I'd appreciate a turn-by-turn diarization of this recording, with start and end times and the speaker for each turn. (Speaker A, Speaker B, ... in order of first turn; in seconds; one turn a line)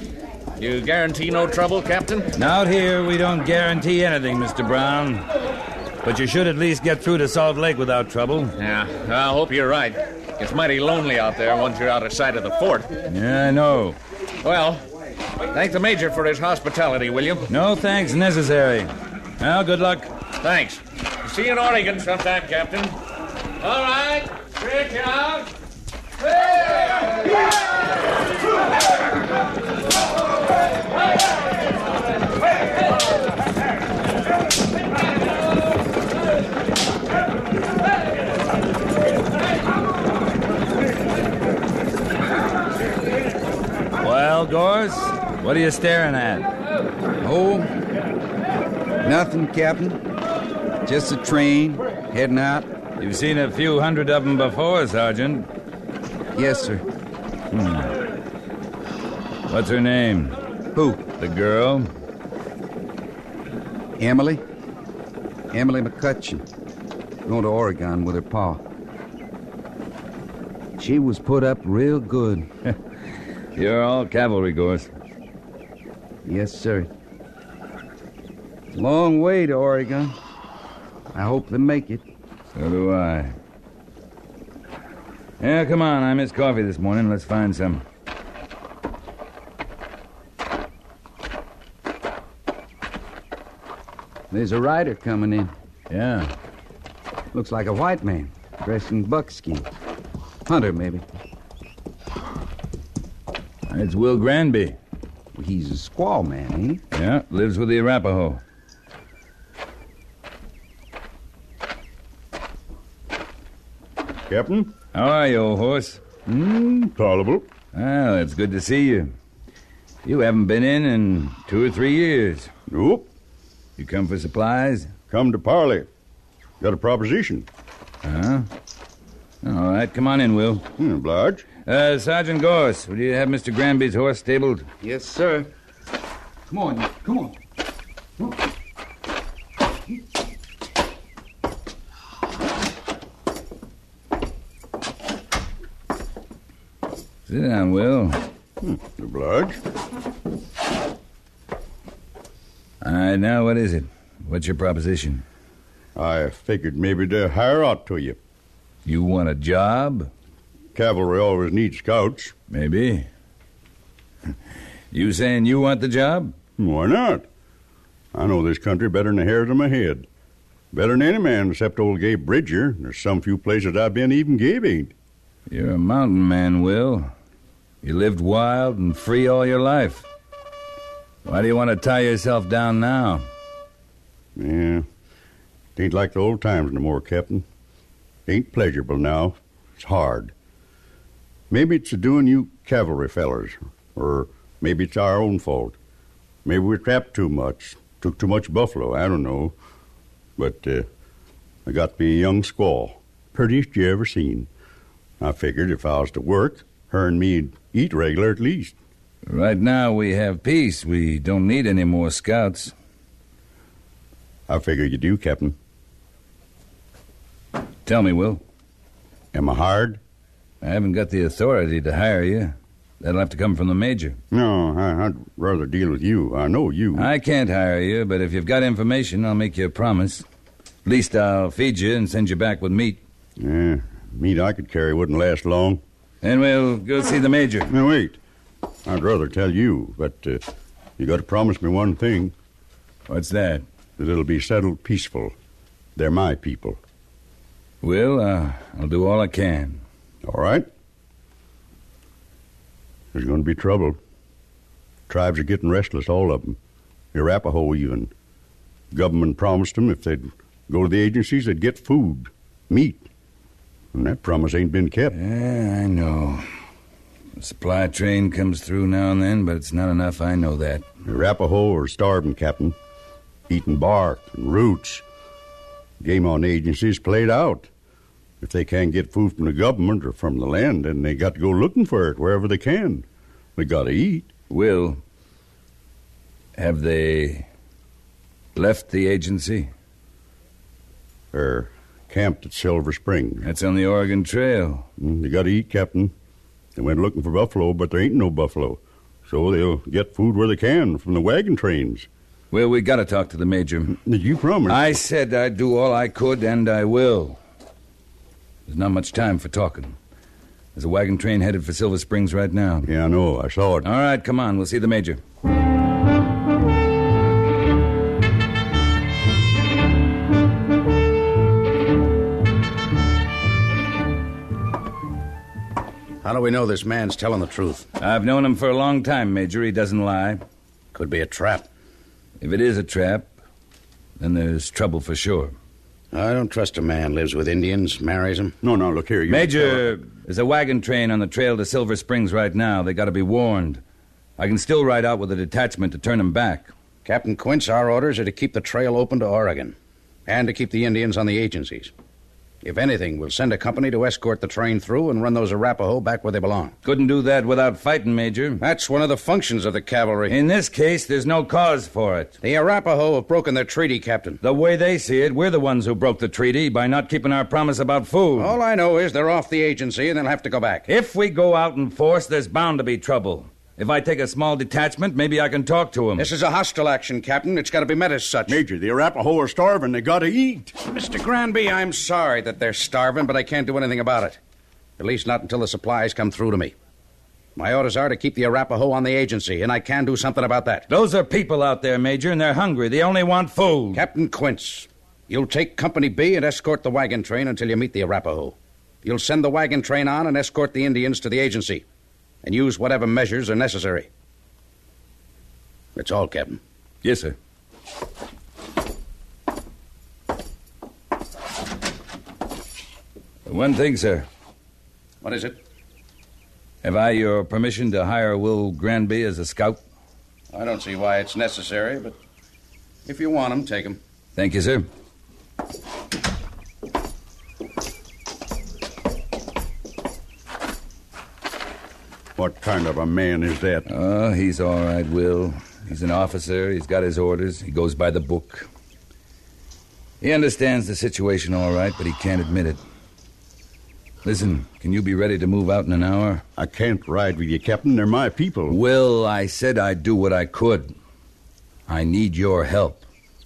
Speaker A: 0.6-2.3
Speaker B: 2.3-5.3
Speaker B: 6.0-8.6
Speaker A: 8.6-12.9
Speaker B: 13.1-14.0
Speaker A: 14.4-14.8
Speaker A: 15.5-17.5
Speaker B: 17.5-20.1
Speaker A: 20.4-22.9
Speaker A: 23.6-25.5
Speaker A: 26.5-27.0
Speaker B: 44.0-46.5
Speaker C: 47.2-47.7
Speaker C: 49.0-50.0
Speaker C: 50.9-52.7
Speaker B: 53.0-55.5
Speaker C: 56.4-56.8
Speaker B: 57.5-57.9
Speaker B: 59.5-60.4
Speaker B: 60.9-61.9
Speaker C: 64.0-64.4
Speaker C: 65.5-66.5
Speaker C: 67.2-68.6
Speaker C: 70.8-72.5
Speaker B: 73.6-74.9
Speaker C: 76.2-76.9
Speaker C: 78.7-80.2
Speaker C: 81.1-82.0
Speaker B: 82.5-83.3
Speaker B: 85.4-87.8
Speaker C: 94.3-95.5
Speaker B: 95.9-96.3
Speaker C: 97.3-99.7
Speaker C: 100.5-101.0
Speaker B: 103.7-104.8
Speaker C: 105.3-106.8
Speaker B: 106.9-108.4
Speaker D: 114.3-114.7
Speaker B: 114.9-116.0
Speaker D: 116.3-117.5
Speaker B: 117.7-119.1
Speaker B: 120.0-122.5
Speaker D: 122.7-123.1
Speaker B: 123.8-124.9
Speaker D: 125.1-125.9
Speaker D: 126.6-127.5
Speaker B: 128.0-128.5
Speaker B: 129.4-130.7
Speaker D: 130.8-131.5
Speaker B: 131.7-134.7
Speaker C: 134.8-135.5
Speaker C: 136.5-137.3
Speaker B: 147.3-148.2
Speaker D: 148.6-149.6
Speaker B: 152.8-155.2
Speaker D: 155.9-158.2
Speaker B: 158.8-160.1
Speaker D: 160.8-162.3
Speaker B: 162.5-163.1
Speaker B: 164.9-166.3
Speaker D: 166.6-167.3
Speaker D: 168.1-170.1
Speaker D: 170.7-174.9
Speaker B: 175.5-177.1
Speaker B: 177.8-180.1
Speaker B: 181.2-183.3
Speaker D: 184.4-184.9
Speaker D: 185.8-187.4
Speaker D: 188.3-190.3
Speaker D: 191.5-195.8
Speaker D: 196.4-199.5
Speaker D: 200.4-200.9
Speaker D: 201.7-204.5
Speaker D: 205.2-208.8
Speaker B: 209.3-212.7
Speaker D: 214.5-215.6
Speaker B: 217.9-218.4
Speaker D: 219.3-220.0
Speaker B: 220.6-224.2
Speaker D: 224.3-227.1
Speaker B: 226.9-230.2
Speaker B: 230.8-233.0
Speaker D: 233.4-235.8
Speaker B: 236.2-237.7
Speaker D: 237.7-238.2
Speaker D: 238.8-240.4
Speaker D: 241.0-242.3
Speaker B: 243.1-243.7
Speaker D: 244.0-245.3
Speaker D: 246.0-246.8
Speaker B: 247.8-249.8
Speaker D: 250.2-250.7
Speaker D: 253.1-254.0
Speaker D: 255.1-256.6
Speaker D: 257.1-258.1
Speaker D: 258.9-263.1
Speaker D: 263.9-265.1
Speaker B: 265.1-266.5
Speaker B: 267.4-270.9
Speaker D: 271.1-272.8
Speaker D: 273.5-275.1
Speaker D: 276.0-277.7
Speaker D: 278.4-284.3
Speaker B: 284.5-285.0
Speaker B: 286.6-287.5
Speaker B: 288.6-289.7
Speaker D: 291.3-293.5
Speaker B: 293.4-294.9
Speaker D: 295.0-296.1
Speaker D: 296.8-302.1
Speaker B: 302.5-304.0
Speaker D: 303.9-304.8
Speaker B: 304.7-307.4
Speaker B: 308.7-309.9
Speaker B: 310.8-312.9
Speaker D: 312.8-313.9
Speaker B: 313.8-315.2
Speaker E: 326.2-327.9
Speaker B: 328.0-330.4
Speaker E: 330.9-331.7
Speaker B: 332.4-333.3
Speaker B: 334.2-335.5
Speaker E: 336.1-338.6
Speaker D: 338.6-340.0
Speaker B: 339.3-343.8
Speaker B: 344.4-346.7
Speaker E: 347.1-349.8
Speaker E: 350.3-351.9
Speaker E: 352.6-356.7
Speaker B: 356.8-358.6
Speaker E: 358.6-360.4
Speaker B: 360.3-362.4
Speaker E: 362.4-364.4
Speaker B: 364.4-368.6
Speaker E: 368.4-370.9
Speaker B: 370.9-376.3
Speaker E: 376.2-378.6
Speaker D: 378.5-380.8
Speaker E: 380.9-384.4
Speaker E: 385.0-386.7
Speaker E: 387.6-390.9
Speaker B: 390.9-394.0
Speaker E: 393.9-401.8
Speaker E: 402.4-404.1
Speaker E: 406.0-406.6
Speaker B: 407.0-407.4
Speaker B: 413.5-414.3
Speaker E: 415.2-415.6
Speaker B: 416.8-419.8
Speaker E: 420.5-422.1
Speaker E: 423.1-424.0
Speaker B: 424.4-424.9
Speaker D: 432.4-433.9
Speaker B: 433.9-438.7
Speaker B: 440.2-442.8
Speaker B: 444.2-446.4
Speaker D: 446.6-448.8
Speaker B: 448.7-450.9
Speaker B: 451.9-453.1